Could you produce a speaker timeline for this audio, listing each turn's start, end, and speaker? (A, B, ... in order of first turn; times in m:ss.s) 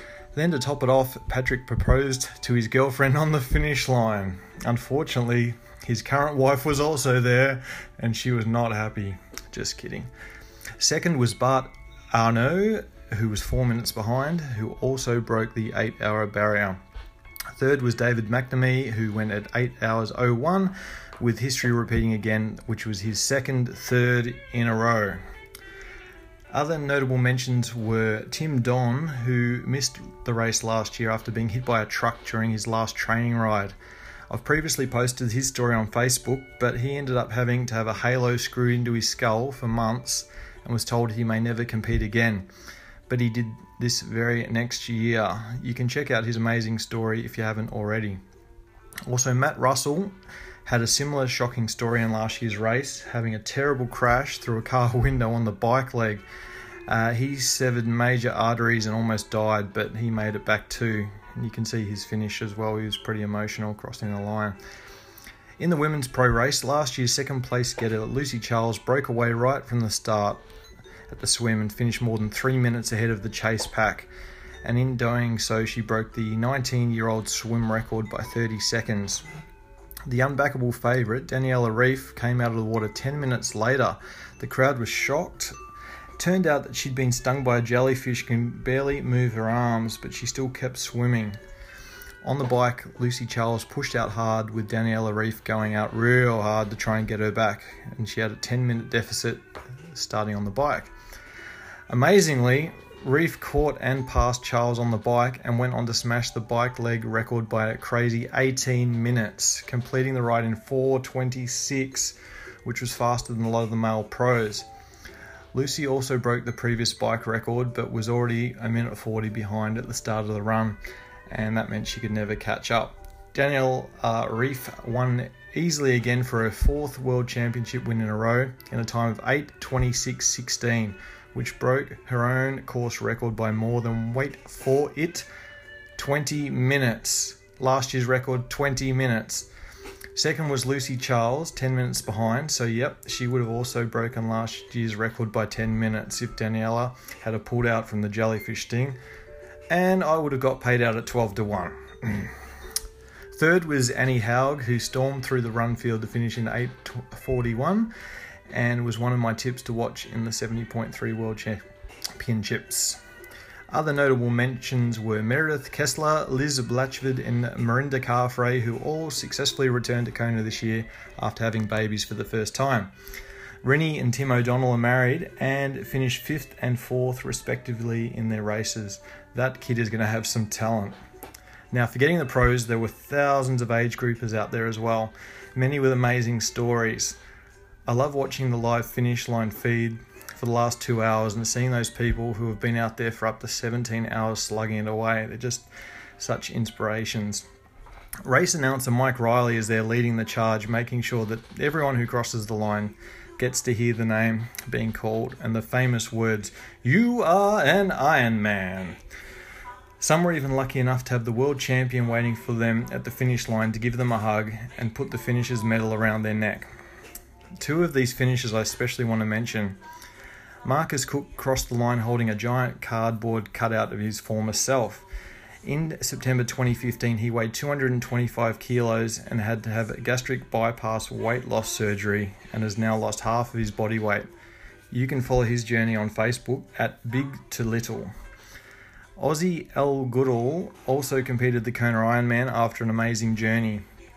0:00.3-0:10.1 A
0:10.8-0:16.8 A
0:17.6-0:25.2 A
0:26.5-0:33.7 A
0:34.3-0:42.5 A
0:43.1-0:48.2 A
0:49.1-0:50.1 A
0:50.6-0:56.2 A
0:56.9-1:04.6 A
1:05.6-1:10.4 A
1:11.1-1:14.1 A
1:14.6-1:19.2 A
1:20.0-1:25.5 A
1:26.2-1:31.4 A
1:32.2-1:40.9 A
1:41.9-1:54.7 A
1:55.5-2:00.8 A
2:01.3-2:15.2 A
2:16.0-2:19.5 A
2:20.2-2:29.0 A
2:29.7-2:32.3 A
2:33.3-2:37.9 A
2:38.5-2:41.6 A
2:42.2-2:43.0 A
2:43.7-2:52.9 A
2:53.6-3:01.0 A
3:01.7-3:07.2 A
3:07.9-3:15.7 A
3:16.2-3:17.4 A
3:18.2-3:29.0 A
3:30.0-3:36.7 A
3:37.6-3:39.8 A
3:40.6-3:45.0 A
3:45.6-3:54.2 A
3:54.9-3:58.1 A
3:59.2-4:03.8 A